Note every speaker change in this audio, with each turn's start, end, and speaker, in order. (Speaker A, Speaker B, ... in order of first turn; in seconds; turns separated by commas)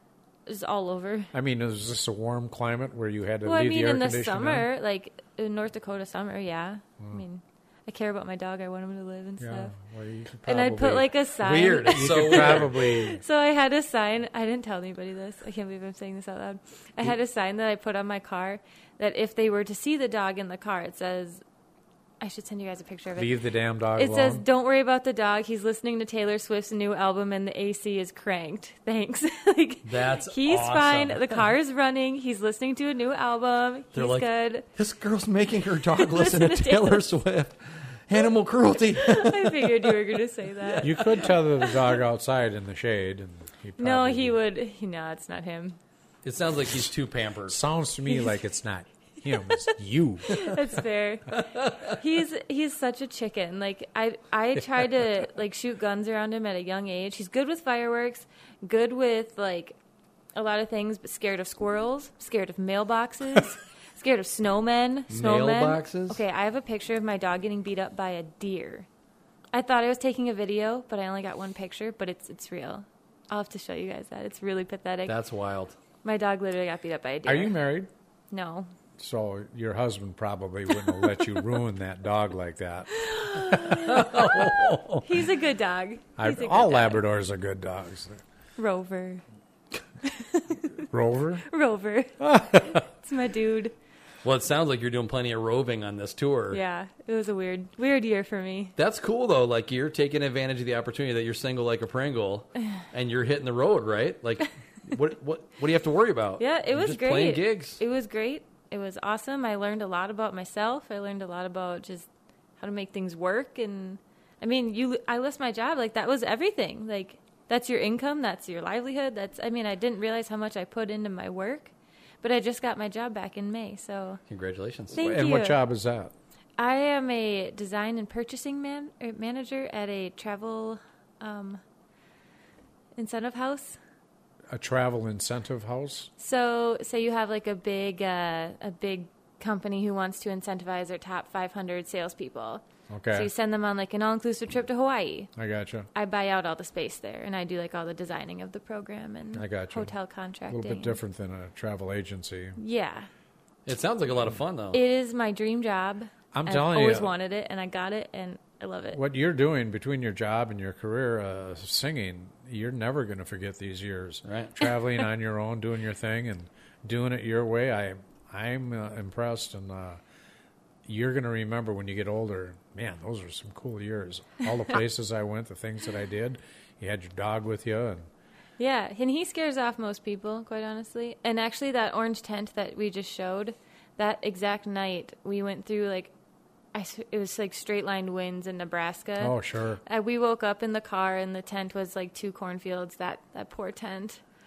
Speaker A: 0.5-1.3, Speaker B: 1.3-4.7, Speaker A: 3.5-9.7, Speaker B: 9.4-11.1, Speaker A: 10.5-21.4, Speaker C: 11.4-12.7, Speaker B: 11.9-13.2, Speaker A: 22.2-23.4, Speaker B: 23.2-24.4, Speaker A: 23.9-34.7, Speaker C: 29.9-31.4, Speaker C: 33.9-40.0, Speaker A: 36.0-37.0, Speaker A: 39.0-41.3, Speaker C: 40.6-41.3, Speaker B: 40.8-44.4, Speaker A: 43.8-45.8, Speaker C: 46.2-47.6, Speaker B: 47.5-50.5, Speaker A: 50.3-59.8, Speaker C: 51.4-51.9, Speaker A: 60.4-68.9, Speaker C: 65.1-66.2, Speaker A: 69.5-75.2, Speaker C: 75.1-75.8, Speaker A: 76.0-77.6, Speaker B: 77.2-77.9, Speaker A: 78.3-78.7, Speaker B: 79.0-83.8, Speaker A: 82.9-84.2, Speaker C: 83.8-85.1, Speaker A: 85.0-87.0, Speaker B: 86.2-88.2, Speaker A: 88.6-89.2, Speaker A: 90.0-90.9, Speaker B: 90.9-91.4, Speaker A: 91.5-93.7, Speaker B: 92.2-92.8, Speaker C: 94.2-96.6, Speaker A: 96.5-98.7, Speaker C: 98.8-107.8, Speaker A: 106.4-112.1, Speaker A: 112.6-124.2, Speaker C: 124.3-125.0, Speaker A: 124.9-125.6, Speaker B: 125.0-126.1, Speaker A: 126.6-131.6, Speaker A: 133.0-133.8, Speaker B: 134.5-136.1, Speaker A: 136.2-145.3, Speaker B: 142.9-143.3, Speaker B: 145.4-145.9, Speaker A: 145.9-151.0, Speaker B: 149.3-149.9, Speaker B: 150.5-152.6, Speaker A: 152.6-153.1, Speaker C: 153.7-154.8, Speaker A: 154.7-159.0, Speaker B: 156.3-157.1, Speaker B: 158.9-170.0, Speaker C: 164.2-164.6, Speaker B: 170.8-178.1, Speaker A: 178.6-186.1, Speaker A: 186.7-194.2, Speaker B: 189.2-189.8